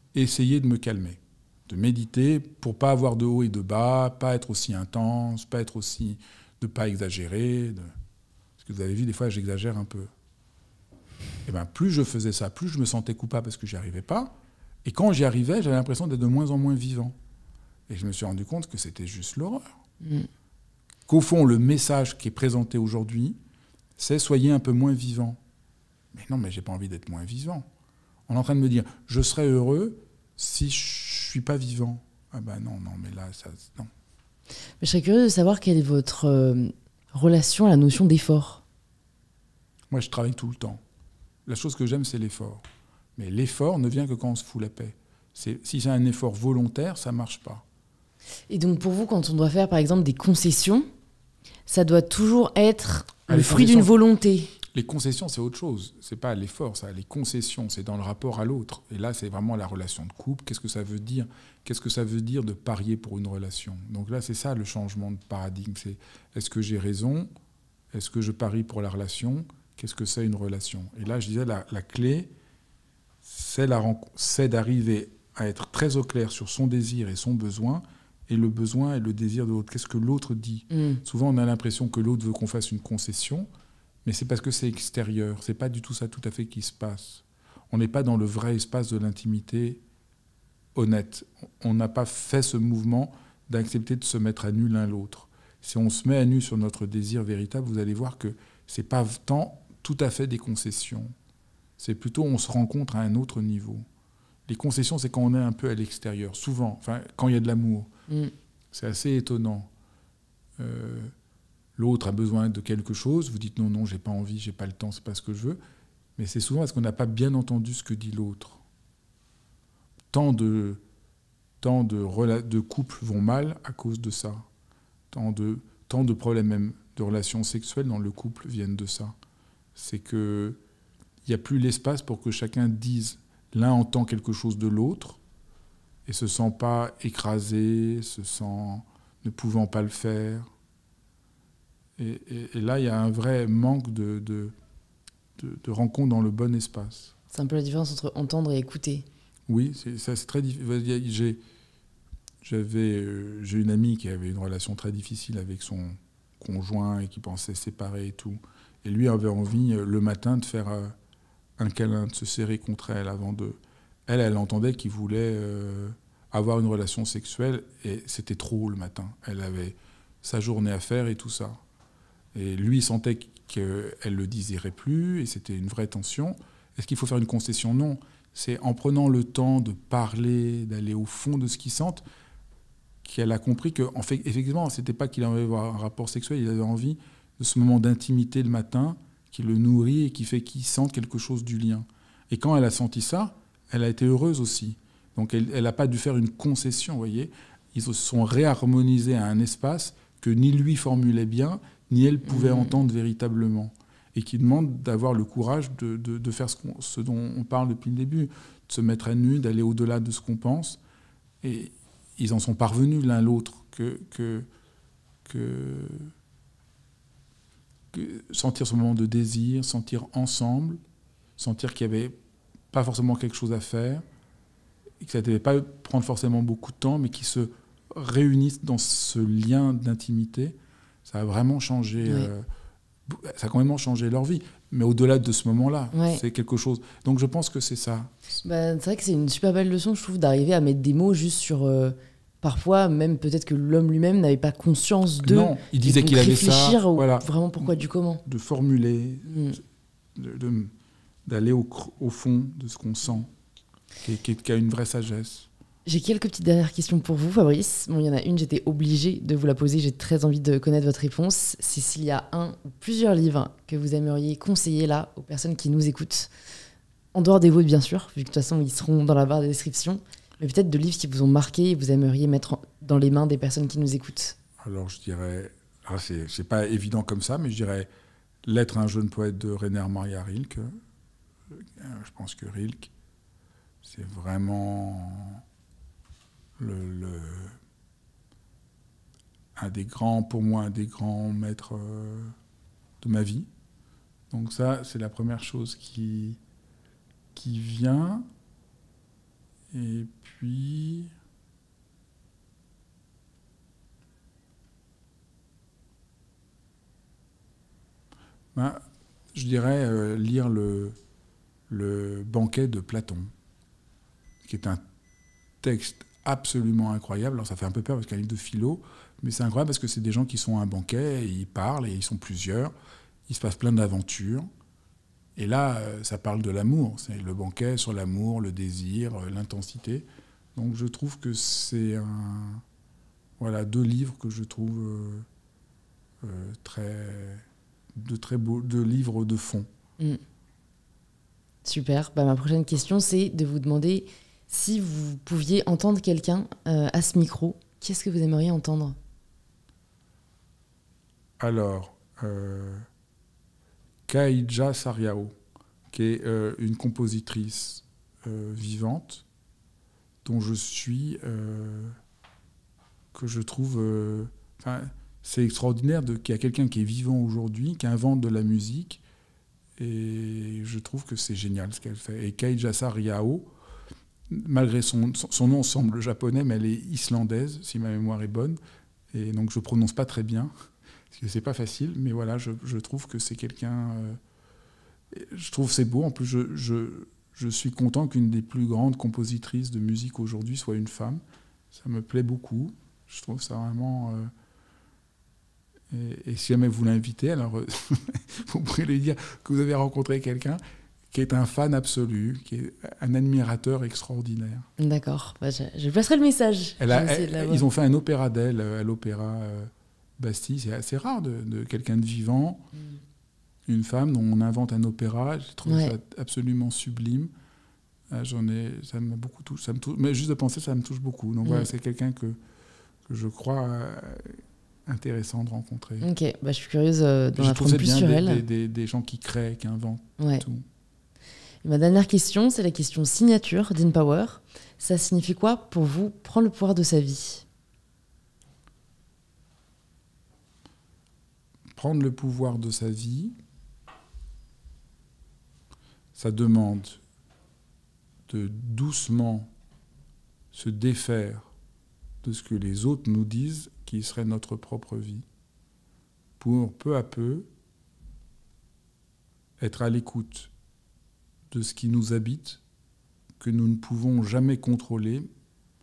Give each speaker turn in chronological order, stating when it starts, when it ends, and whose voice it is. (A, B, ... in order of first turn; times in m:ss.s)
0:00.1-0:07.9 A
0:08.6-0:10.1 A
0:11.5-0:14.3 A
0:14.8-0:17.2 A
0:17.9-0:19.7 A
0:20.0-0:20.3 B
0:21.1-0:23.4 A
0:24.0-0:25.4 A
0:26.1-0:27.7 A
0:28.3-0:33.9 A
0:34.8-0:38.6 B
0:39.9-0:40.8 A
0:41.5-0:42.6 A
0:43.2-0:47.6 A
0:48.5-0:50.9 B
0:51.7-0:54.5 B
0:53.3-0:53.9 A
0:54.7-1:07.3 A
1:07.9-1:12.3 A
1:13.2-1:23.5 A
1:20.7-1:21.0 B
1:24.0-1:29.8 A
1:30.8-1:41.1 A
1:41.8-1:43.9 A
1:44.5-1:47.9 A
1:48.7-1:49.7 A
1:50.6-1:51.1 A
1:51.8-1:55.6 A
1:56.2-1:58.6 A
2:00.1-2:00.8 A
2:01.6-2:04.4 A
2:05.1-2:09.2 A
2:09.8-2:10.6 A
2:11.2-2:15.2 A
2:16.1-2:20.5 A
2:22.0-2:24.5 A
2:25.4-2:27.1 A
2:27.3-2:29.0 B
2:29.5-2:31.4 A
2:32.4-2:40.9 A
2:41.6-2:51.6 A
2:52.3-3:02.0 A
3:03.0-3:30.8 A
3:22.3-3:22.8 B
3:31.4-3:34.5 A
3:35.2-3:36.1 A
3:37.9-3:40.8 A
3:41.4-3:42.2 A
3:42.7-3:44.0 A
3:45.0-3:52.5 A
3:52.0-3:52.3 B
3:53.1-3:58.1 A
3:55.9-3:56.2 B
3:58.4-4:08.2 B
4:05.2-4:07.7 A
4:08.2-4:09.6 A
4:09.3-4:09.6 B
4:10.2-4:10.7 A
4:11.3-4:13.3 A
4:14.0-4:15.5 A
4:15.9-4:26.3 B
4:27.1-4:34.4 B
4:34.6-4:37.9 A
4:38.4-4:40.7 A
4:41.5-4:42.9 A
4:43.8-4:45.4 A
4:46.6-4:47.6 A
4:49.6-4:52.4 A
4:53.0-4:53.5 A
4:54.3-4:56.4 A
4:57.4-4:58.3 A
4:59.7-5:01.1 A
5:08.5-5:08.8 A
5:09.3-5:11.0 A
5:11.7-5:13.3 A
5:14.4-5:14.8 A
5:15.6-5:22.7 A
5:23.3-5:24.5 A
5:25.4-5:32.6 A
5:33.4-5:35.3 A
5:36.2-5:39.7 A
5:41.6-5:49.0 B
5:51.4-5:52.8 A
5:54.1-5:55.4 A
5:55.9-5:59.2 A
6:00.2-6:02.0 A
6:03.1-6:09.0 A
6:09.8-6:13.5 A
6:14.3-6:18.6 A
6:19.1-6:20.5 A
6:21.1-6:24.2 A
6:25.1-6:31.2 A
6:31.7-6:34.3 A
6:35.9-6:44.7 A
6:44.8-6:47.7 B
6:46.8-6:52.7 A
6:53.7-6:57.3 A
6:55.7-6:55.9 B
6:58.1-7:02.4 A
7:03.1-7:06.1 A
7:06.0-7:08.4 B
7:07.4-7:10.6 A
7:10.2-7:10.4 B
7:11.6-7:17.4 B
7:21.8-7:23.4 A
7:26.2-7:27.0 A
7:28.3-7:29.5 A
7:30.5-7:31.5 A
7:32.2-7:35.2 A
7:36.4-7:37.5 A
7:39.6-7:40.5 A
7:41.5-7:42.6 A
7:43.4-7:45.3 A